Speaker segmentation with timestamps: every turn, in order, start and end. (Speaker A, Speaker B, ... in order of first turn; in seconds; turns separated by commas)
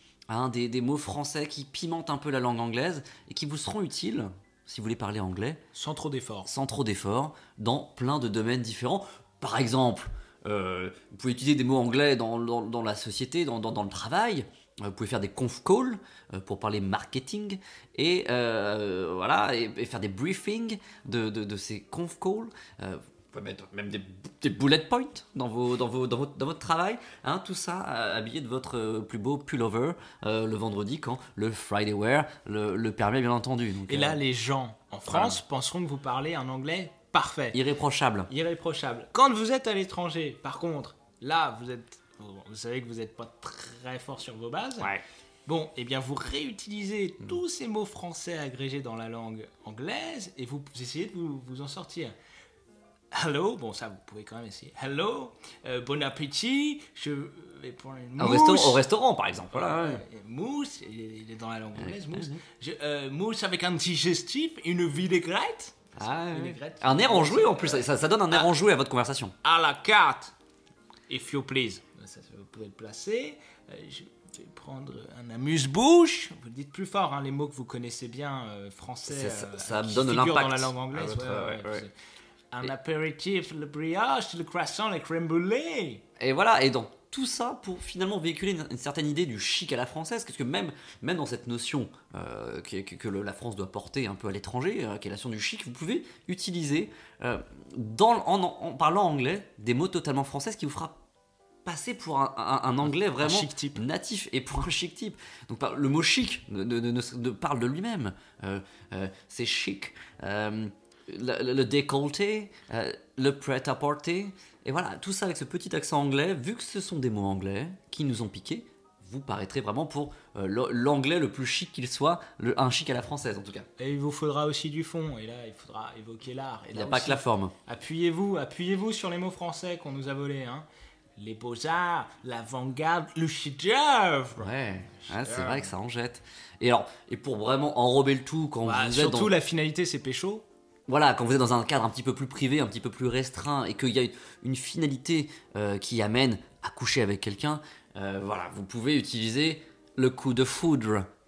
Speaker A: 0.3-5.6, Speaker B: 5.7-6.5, Speaker A: 6.5-34.2, Speaker B: 33.9-37.6, Speaker A: 35.1-35.4, Speaker A: 37.5-38.3, Speaker B: 38.3-44.9, Speaker B: 45.5-52.1, Speaker B: 53.1-58.8, Speaker A: 58.2-60.0, Speaker B: 59.5-68.5, Speaker A: 61.8-62.4, Speaker A: 66.0-69.3, Speaker B: 69.4-70.3, Speaker B: 71.1-81.9, Speaker A: 79.1-81.9, Speaker B: 82.5-86.0, Speaker A: 86.2-101.0, Speaker A: 101.7-123.7, Speaker B: 102.8-103.8, Speaker B: 123.8-130.7, Speaker A: 126.7-127.5, Speaker B: 131.2-135.7, Speaker A: 134.4-139.3, Speaker B: 138.6-140.4, Speaker A: 140.9-151.1